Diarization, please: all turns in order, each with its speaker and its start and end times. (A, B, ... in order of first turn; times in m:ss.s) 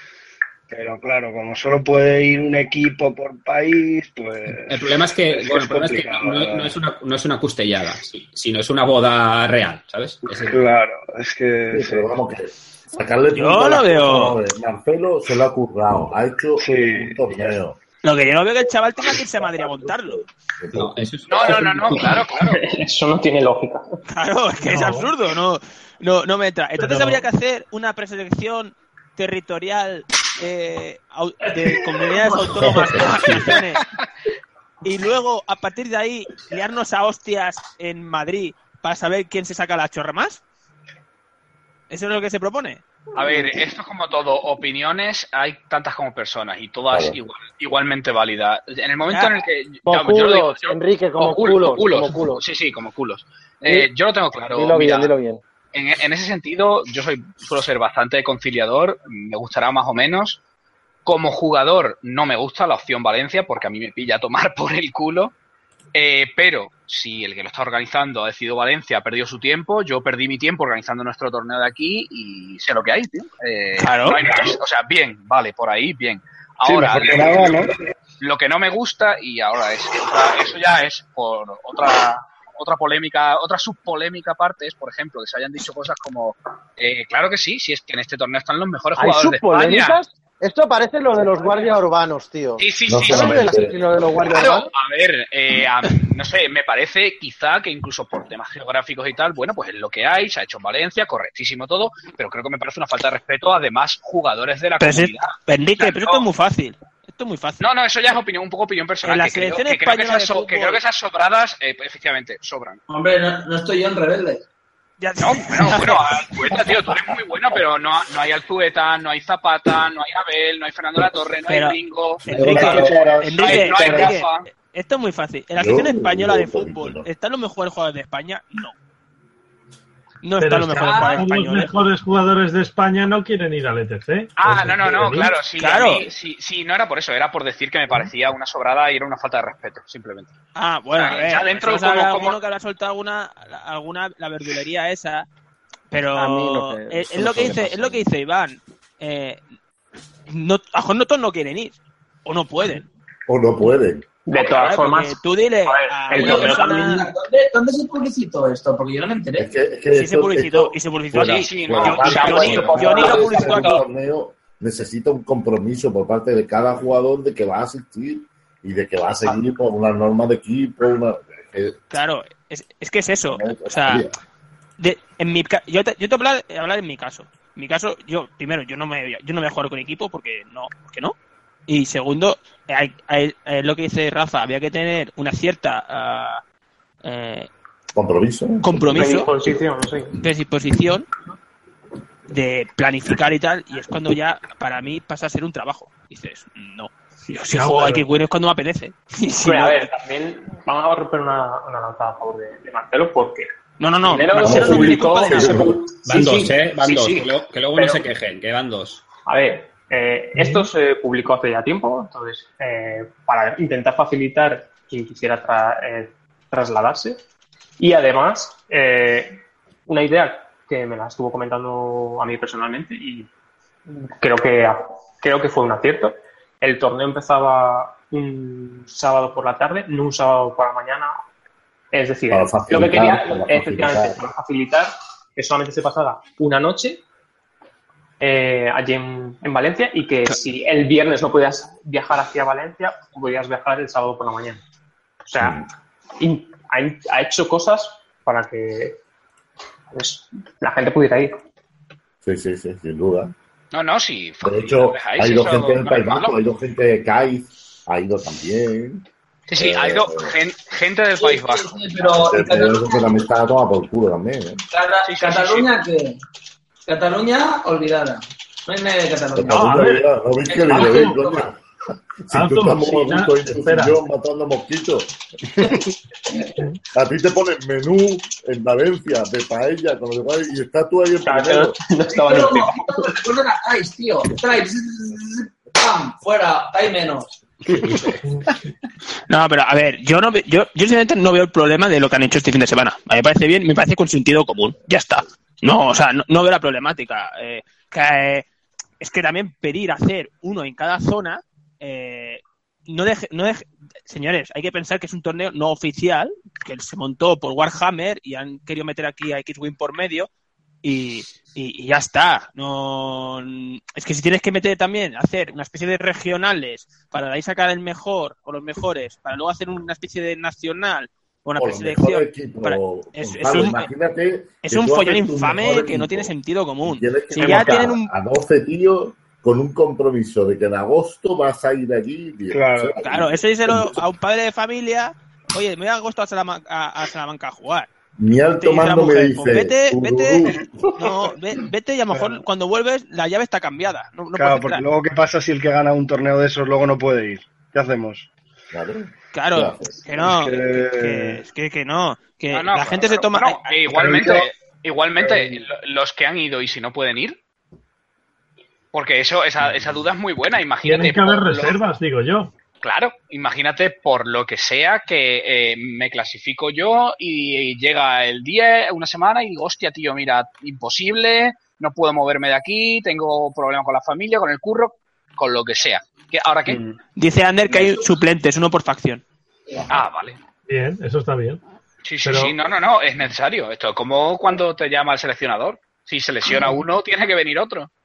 0:00.7-0:06.8 A
0:04.7-0:10.6 B
0:10.4-0:12.1 A
0:11.7-0:17.8 C
0:13.3-0:14.4 D
0:16.6-0:17.2 A
0:18.0-0:20.2 D
0:19.4-0:21.4 C
0:20.7-0:21.9 B
0:21.3-0:22.6 E
0:21.5-0:24.0 F
0:24.1-0:33.9 D
0:24.6-0:25.1 G
0:26.8-0:27.1 G
0:32.2-0:33.5 H
0:32.8-0:33.5 C
0:34.8-0:40.4 D
0:41.9-0:42.8 D
0:43.2-0:55.1 E
0:46.9-0:47.2 C
0:49.1-0:49.4 D
0:49.9-0:52.4 I
0:54.5-0:55.4 I
0:55.7-1:00.4 E
1:01.0-1:05.3 E
1:06.0-1:30.0 E
1:13.8-1:14.3 D
1:16.6-1:17.7 A
1:29.0-1:34.7 I
1:32.6-1:46.3 E
1:32.9-1:33.8 C
1:44.8-1:47.6 D
1:47.6-1:52.8 E
1:49.0-1:50.8 D
1:52.9-1:54.4 H
1:55.0-1:56.6 D
1:55.2-2:04.4 E
2:01.5-2:08.7 D
2:02.3-2:04.1 A
2:05.6-2:07.1 C
2:10.2-2:11.8 D
2:10.4-2:15.3 G
2:10.8-2:11.2 E
2:14.4-2:20.3 E
2:15.5-2:16.1 D
2:20.6-2:25.3 D
2:20.9-2:22.4 E
2:25.9-2:29.4 D
2:26.2-2:28.0 I
2:30.3-2:32.9 D
2:33.3-2:34.1 C
2:34.3-2:36.9 F
2:34.4-2:37.1 D
2:36.2-2:39.5 H
2:39.4-2:51.8 C
2:39.9-2:43.8 D
2:41.2-2:43.7 E
2:51.9-2:54.0 D
2:53.3-2:54.2 C
2:54.8-3:01.2 D
3:01.7-3:06.4 D
3:07.0-3:07.5 D
3:07.9-3:09.1 C
3:08.6-3:09.3 D
3:08.9-3:10.2 F
3:10.2-3:11.1 D
3:12.3-3:19.9 D
3:17.5-3:18.2 G
3:19.4-3:23.5 F
3:23.8-3:25.8 D
3:24.0-3:28.0 F
3:24.4-3:25.8 C
3:26.1-3:29.0 B
3:29.3-3:37.2 F
3:30.4-3:30.7 G
3:37.8-3:43.3 F
3:44.2-3:51.2 F
3:51.9-3:57.0 F
3:52.3-3:54.2 C
3:58.2-4:04.6 F
4:05.2-4:05.6 F
4:05.4-4:05.7 C
4:06.2-4:09.0 F
4:09.9-4:11.4 F
4:12.2-4:13.3 C
4:13.7-4:16.3 E
4:14.4-4:20.3 C
4:19.5-4:21.8 E
4:21.2-4:23.3 H
4:22.0-4:24.6 C
4:24.7-4:26.2 H
4:25.0-4:25.7 E
4:26.9-4:29.9 H
4:29.3-4:31.6 C
4:29.5-4:30.0 G
4:30.5-4:31.4 H
4:30.7-4:31.2 G
4:32.2-4:35.7 C
4:32.3-4:34.0 G
4:36.9-4:41.8 C
4:41.2-4:43.2 F
4:42.1-4:47.4 H
4:49.3-4:58.5 D
4:59.0-5:10.3 D
5:10.8-5:23.9 D
5:21.6-5:26.3 C
5:24.6-5:28.1 D
5:26.8-5:34.0 C
5:32.5-5:33.0 A
5:33.0-5:37.9 D
5:38.2-5:40.6 C
5:38.6-5:44.9 D
5:42.1-5:42.4 A
5:44.4-5:48.3 A
5:48.7-5:50.1 C
5:49.3-5:53.7 D
5:50.2-5:51.4 A
5:52.5-5:57.4 E
5:53.9-5:54.5 A
5:55.2-5:55.5 A
5:58.9-6:01.8 E
6:00.8-6:02.5 G
6:02.8-6:16.8 E
6:17.2-6:19.2 D
6:17.7-6:18.0 H
6:19.9-6:20.4 E
6:20.7-6:21.6 G
6:22.0-6:27.9 E
6:22.2-6:22.6 G